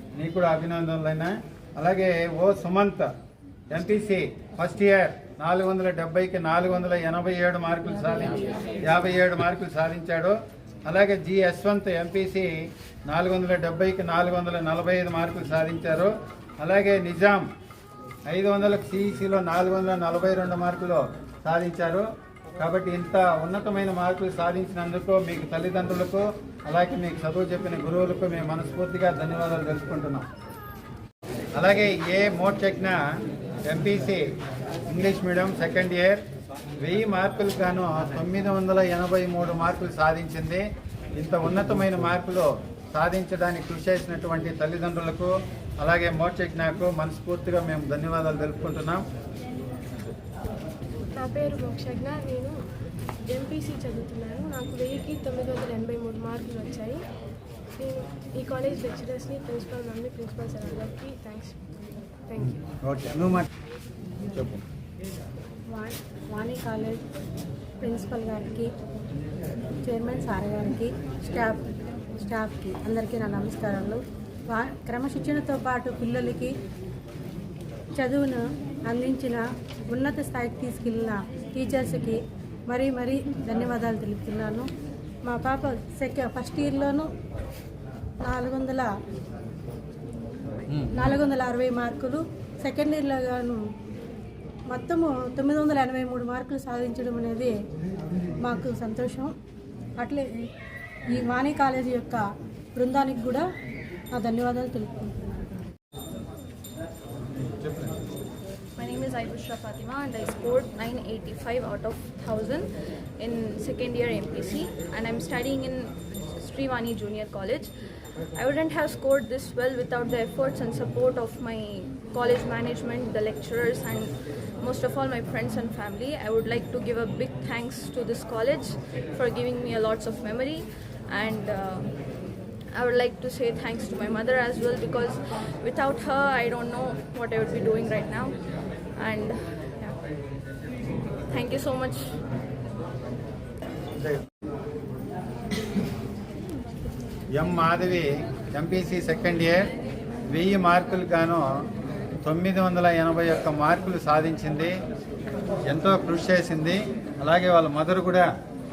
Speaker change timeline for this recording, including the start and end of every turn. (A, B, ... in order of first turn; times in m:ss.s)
0:00.2-0:03.1 A
0:03.7-0:12.5 A
0:13.1-0:17.4 A
0:18.3-0:22.0 A
0:22.6-0:30.3 A
0:31.5-0:33.0 A
0:33.7-0:34.2 A
0:34.9-0:36.2 A
0:36.8-0:40.6 A
0:41.2-0:49.0 A
0:51.1-0:52.6 B
0:53.3-0:57.0 B
0:57.8-1:01.6 B
1:02.3-1:02.5 B
1:02.4-1:03.5 A
1:04.3-1:04.6 A
1:05.7-1:07.0 C
1:07.8-1:08.7 C
1:09.8-1:11.6 C
1:12.2-1:16.5 C
1:18.0-1:24.7 C
1:25.2-1:27.1 C
1:28.2-1:28.9 C
1:30.9-1:33.5 C
1:34.7-1:37.5 C
1:38.4-1:39.3 C
1:40.0-1:40.3 C
1:41.1-1:42.2 C
1:42.8-1:43.4 C
1:44.1-1:45.4 C
1:47.4-1:48.0 A
1:48.8-1:57.7 D
1:58.3-2:11.9 D
2:12.7-2:18.4 D
2:19.0-2:20.0 D
2:21.3-2:22.1 D
2:27.4-2:29.7 A
2:30.3-2:31.4 A
2:32.2-2:34.7 A
2:35.7-2:38.3 A